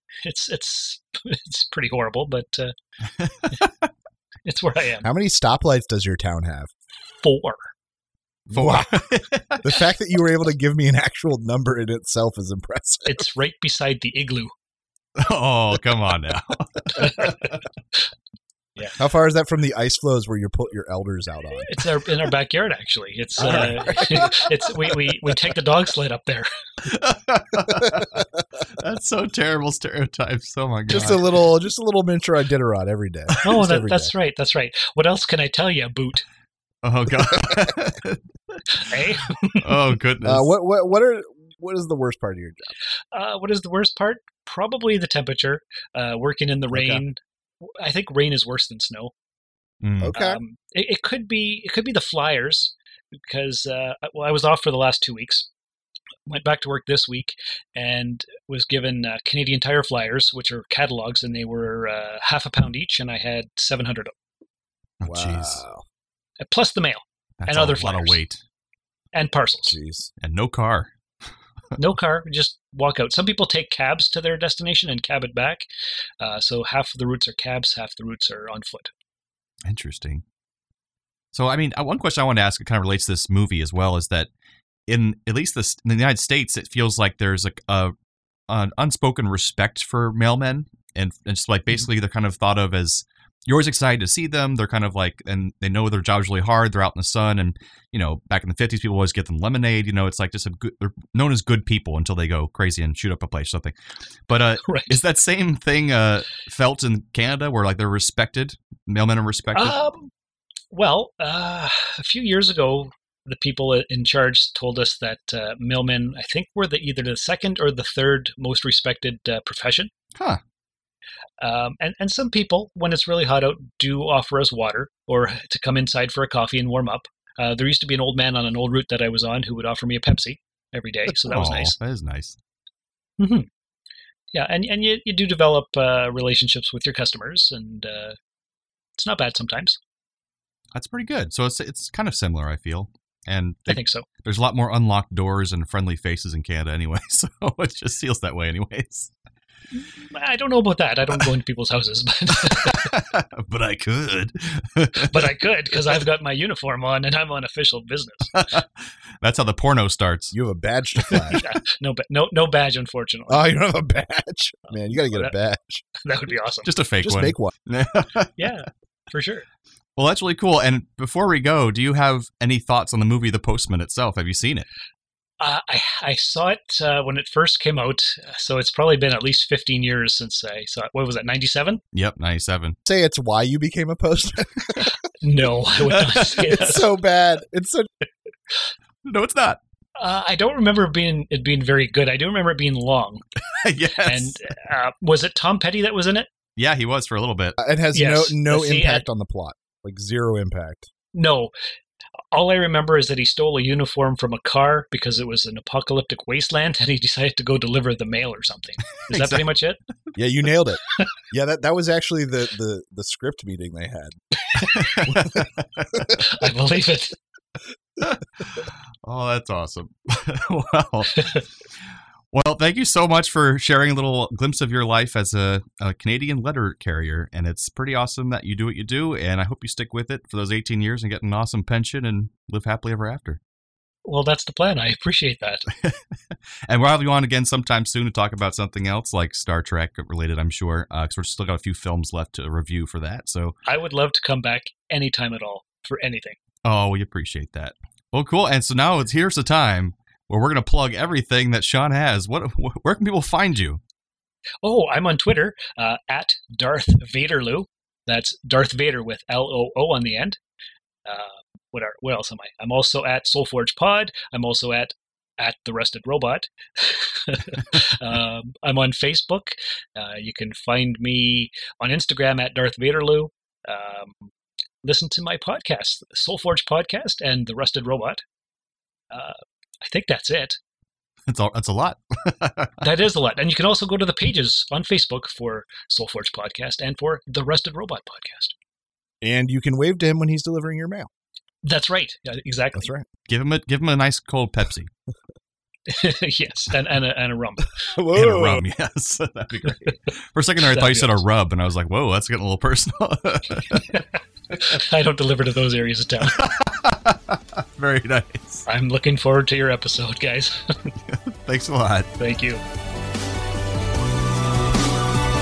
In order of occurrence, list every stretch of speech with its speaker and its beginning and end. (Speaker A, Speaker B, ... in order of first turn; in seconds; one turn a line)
Speaker A: 0.2-2.7
Speaker B: 3.2-3.8
Speaker A: 4.5-5.1
Speaker C: 5.0-6.7
Speaker A: 7.2-7.7
Speaker C: 8.5-9.1
Speaker B: 8.5-9.6
Speaker C: 9.6-13.2
Speaker A: 13.1-14.5
Speaker B: 15.2-17.6
Speaker A: 17.0-17.3
Speaker C: 19.0-21.8
Speaker A: 21.7-26.5
Speaker C: 23.4-24.3
Speaker B: 23.4-24.1
Speaker B: 26.9-31.5
Speaker C: 30.9-34.1
Speaker A: 33.4-36.2
Speaker B: 36.8-38.9
Speaker A: 38.8-39.8
Speaker B: 39.6-40.5
Speaker C: 40.2-42.7
Speaker A: 43.1-49.1
Speaker C: 46.7-47.0
Speaker B: 49.8-50.1
Speaker C: 50.0-50.4
Speaker A: 50.1-52.7
Speaker A: 53.3-55.5
Speaker A: 56.3-64.1
Speaker B: 65.0-65.6
Speaker C: 65.0-65.8
Speaker A: 66.4-68.2
Speaker B: 67.4-68.4
Speaker A: 69.1-69.8
Speaker C: 69.7-70.1
Speaker B: 70.2-70.9
Speaker A: 71.8-75.7
Speaker A: 76.2-78.9
Speaker B: 79.7-80.2
Speaker B: 81.3-84.3
Speaker B: 84.9-87.9
Speaker B: 88.5-103.8
Speaker B: 104.3-109.8
Speaker A: 104.6-105.0
Speaker A: 109.5-110.1
Speaker A: 110.7-119.9
Speaker B: 120.2-120.4
Speaker A: 121.4-131.8
Speaker B: 131.2-132.4
Speaker A: 133.2-133.5
Speaker A: 134.3-138.2
Speaker A: 138.9-139.8
Speaker B: 140.7-149.1
Speaker A: 143.7-144.1
Speaker A: 149.8-152.9
Speaker B: 152.4-155.3
Speaker A: 155.1-158.3
Speaker B: 158.3-160.4
Speaker C: 160.3-161.4
Speaker B: 161.0-161.4
Speaker A: 161.4-163.5
Speaker C: 163.3-165.8
Speaker A: 164.7-165.3
Speaker A: 166.0-166.7
Speaker B: 166.6-168.5
Speaker C: 167.0-167.5
Speaker A: 168.4-169.4
Speaker B: 170.0-174.7
Speaker A: 175.4-181.8
Speaker B: 181.9-182.8
Speaker C: 182.9-184.9
Speaker A: 185.2-186.8
Speaker B: 185.8-186.4
Speaker C: 186.4-187.9
Speaker B: 189.0-189.6
Speaker A: 190.0-193.2
Speaker B: 193.6-194.4
Speaker A: 194.0-196.3
Speaker B: 196.6-197.6
Speaker C: 197.6-200.9
Speaker A: 197.9-199.1
Speaker A: 201.1-201.5
Speaker A: 202.3-209.8
Speaker B: 209.0-209.5
Speaker C: 210.2-214.2
Speaker A: 214.5-214.9
Speaker B: 214.6-216.3
Speaker C: 215.1-215.4
Speaker A: 216.1-217.1
Speaker B: 218.0-221.5
Speaker B: 222.3-233.4
Speaker A: 234.1-235.7
Speaker B: 236.7-243.5
Speaker A: 243.7-246.4
Speaker B: 246.6-253.8
Speaker A: 254.6-260.4
Speaker A: 261.1-274.3
Speaker A: 274.8-278.2
Speaker A: 279.1-280.6
Speaker B: 281.3-282.9
Speaker A: 282.8-288.5
Speaker C: 289.2-291.1
Speaker A: 291.6-292.9
Speaker C: 292.8-293.1
Speaker B: 293.3-294.9
Speaker A: 295.9-297.7
Speaker C: 297.9-298.7
Speaker B: 298.1-303.9
Speaker A: 300.7-301.2
Speaker A: 303.7-306.4
Speaker B: 306.3-308.6
Speaker A: 308.7-310.9
Speaker B: 311.1-312.1
Speaker A: 312.2-312.6